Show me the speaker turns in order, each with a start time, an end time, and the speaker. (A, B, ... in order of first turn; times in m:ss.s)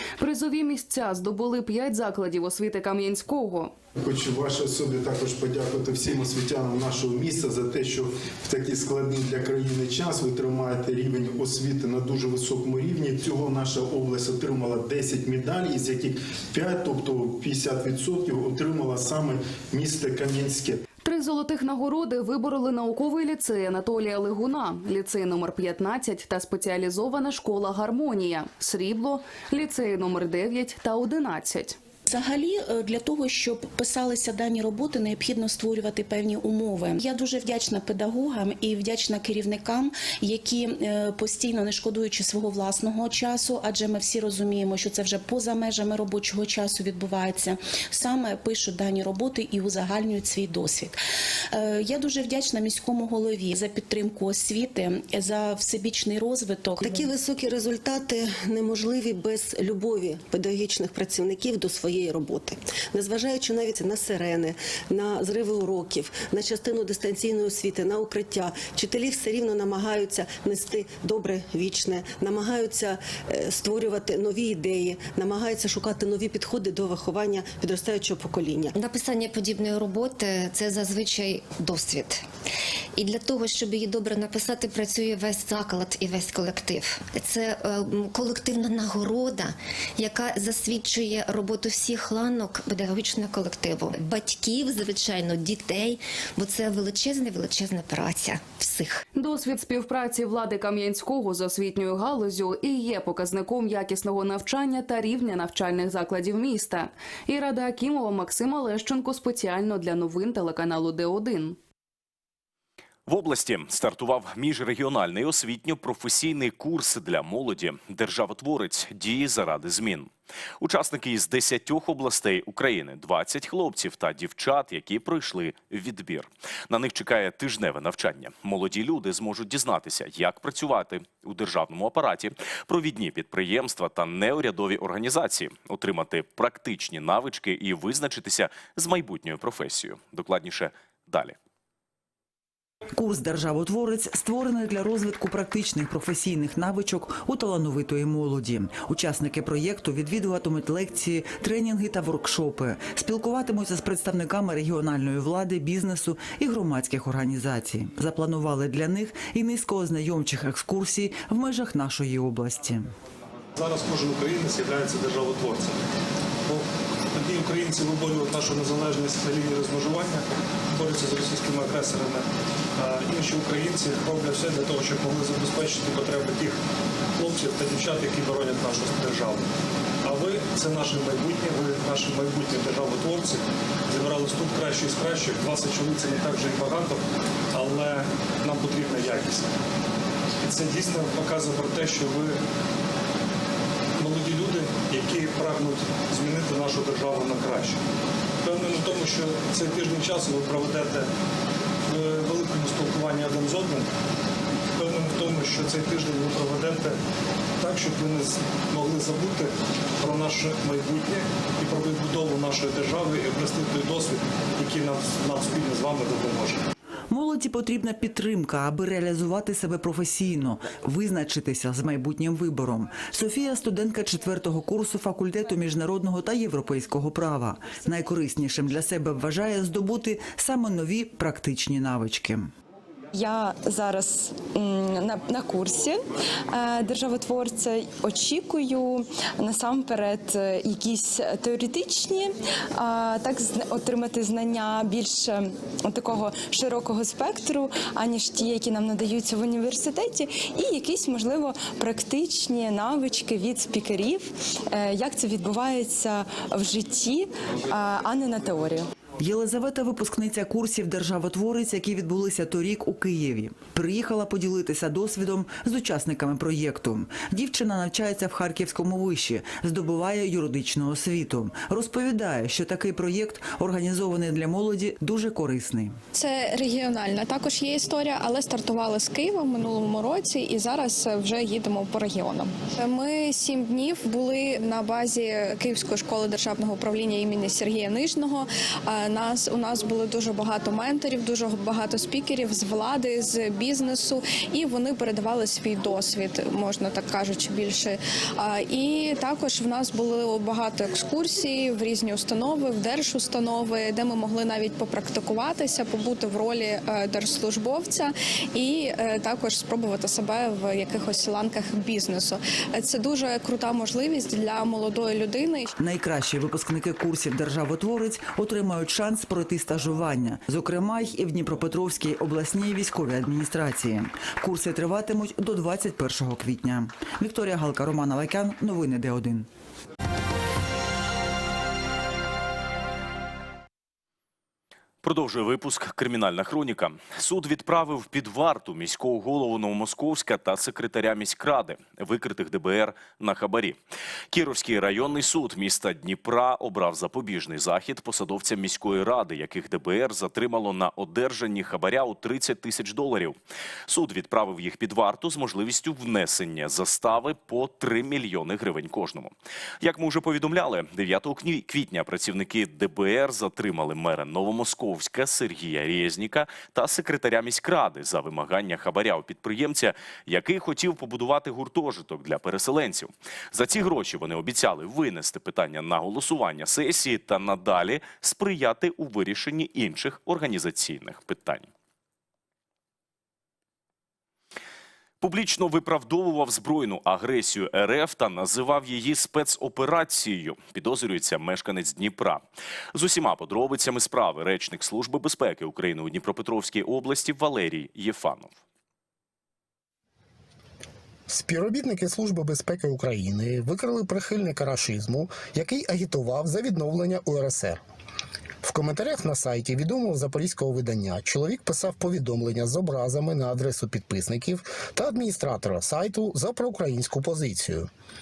0:00.2-0:03.8 A
0:04.0-0:20.8 B
0:21.0-0:31.8 A
0:32.1-0:51.0 C
0:51.5-0:57.0 C
0:56.8-1:18.8 D
1:18.8-1:22.2 E
1:23.0-1:39.0 E
1:39.2-1:51.6 A
1:53.1-2:21.4 F
2:23.0-2:42.9 G
2:43.6-2:45.8 H
2:46.5-2:52.2 H
2:52.8-2:56.6 H
2:57.2-2:59.5 H
3:00.0-3:09.5 H
3:10.4-3:12.4 H
3:14.0-3:17.8 H
3:18.4-3:21.1 H
3:21.9-3:23.9 H
3:24.8-3:27.0 H
3:27.6-3:36.6 H
3:37.1-3:52.5 G
3:53.1-4:18.9 I
4:19.2-4:36.0 G
4:36.1-5:15.7 J
5:15.8-5:29.5 G
5:35.0-5:43.8 F
5:44.3-5:53.4 F
5:53.9-6:21.7 F
6:25.2-6:38.6 F
6:41.3-6:47.8 K
6:48.6-6:57.9 K